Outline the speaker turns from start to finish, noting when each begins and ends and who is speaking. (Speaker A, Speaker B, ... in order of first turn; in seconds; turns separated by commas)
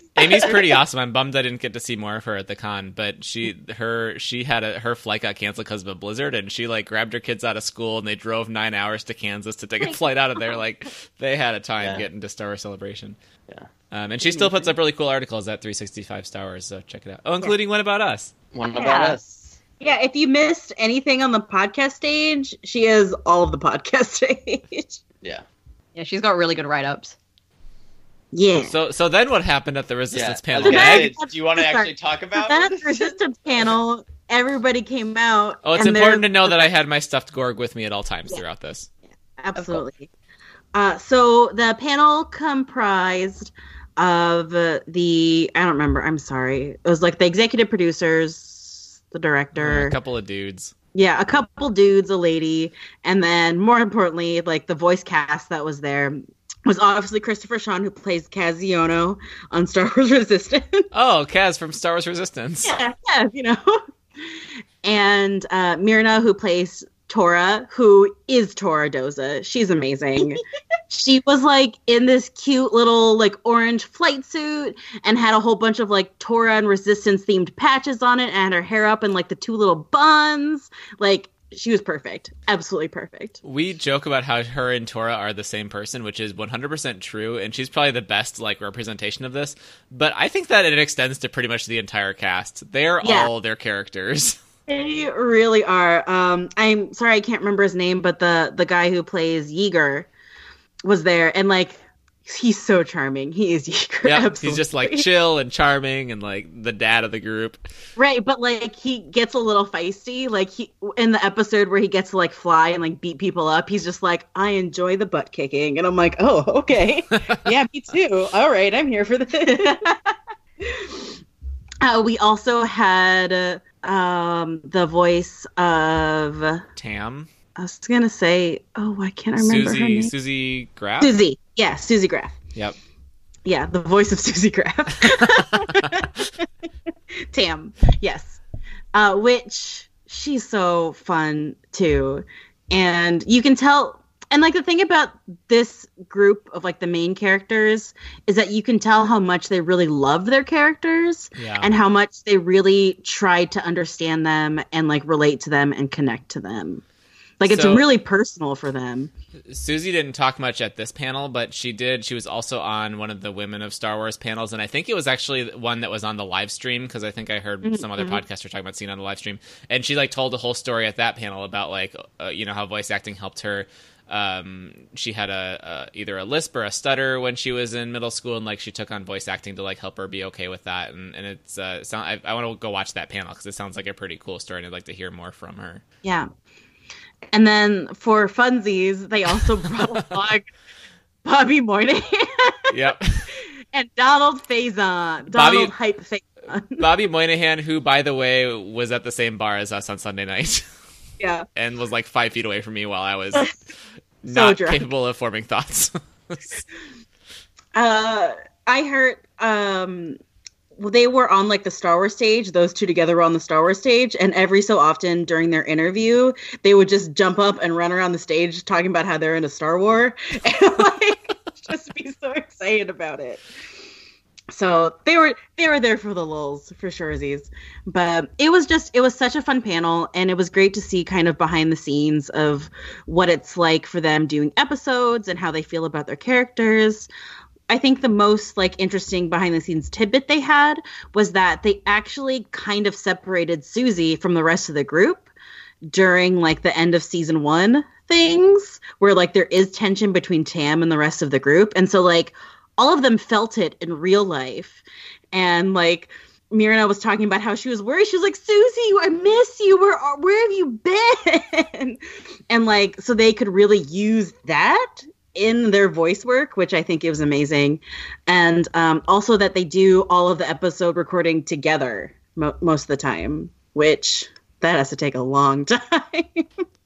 Speaker A: 0.2-13.2, Speaker B: 0.2-0.6, Speaker C: 11.8-12.0, Speaker A: 13.9-18.3, Speaker B: 14.2-14.7, Speaker C: 18.5-19.6, Speaker D: 18.8-19.2, Speaker B: 19.8-25.0, Speaker D: 25.9-27.1, Speaker B: 28.3-28.7, Speaker A: 28.6-31.1, Speaker C: 30.1-33.1, Speaker B: 30.6-36.7, Speaker A: 35.6-38.9, Speaker B: 39.4-40.1, Speaker D: 39.5-39.8, Speaker B: 40.7-50.0, Speaker A: 49.5-50.7, Speaker B: 50.9-60.9, Speaker A: 60.9-62.7, Speaker B: 62.6-70.4, Speaker B: 70.9-83.4, Speaker A: 83.4-94.4, Speaker B: 93.0-93.3, Speaker B: 94.7-100.1, Speaker B: 100.8-105.0, Speaker A: 104.0-107.6, Speaker B: 108.0-120.1, Speaker B: 120.7-121.0, Speaker B: 121.8-126.6, Speaker A: 126.8-127.3, Speaker B: 127.6-130.1, Speaker A: 129.4-131.1, Speaker B: 131.0-132.3, Speaker B: 133.4-136.4, Speaker B: 137.3-138.4, Speaker B: 138.9-156.8, Speaker A: 151.3-151.7, Speaker B: 157.4-159.1, Speaker A: 157.4-157.9, Speaker A: 159.5-185.8, Speaker B: 167.6-168.2, Speaker B: 186.0-186.3, Speaker B: 187.3-190.5, Speaker B: 191.2-192.7, Speaker A: 192.7-193.3, Speaker B: 193.7-196.8, Speaker A: 195.3-195.7, Speaker A: 196.8-200.6, Speaker B: 201.2-201.4, Speaker A: 201.6-203.5, Speaker A: 204.2-206.6, Speaker B: 204.3-204.9, Speaker B: 207.7-210.2, Speaker B: 210.8-223.4, Speaker B: 224.5-237.1, Speaker B: 237.7-245.3, Speaker B: 245.9-276.5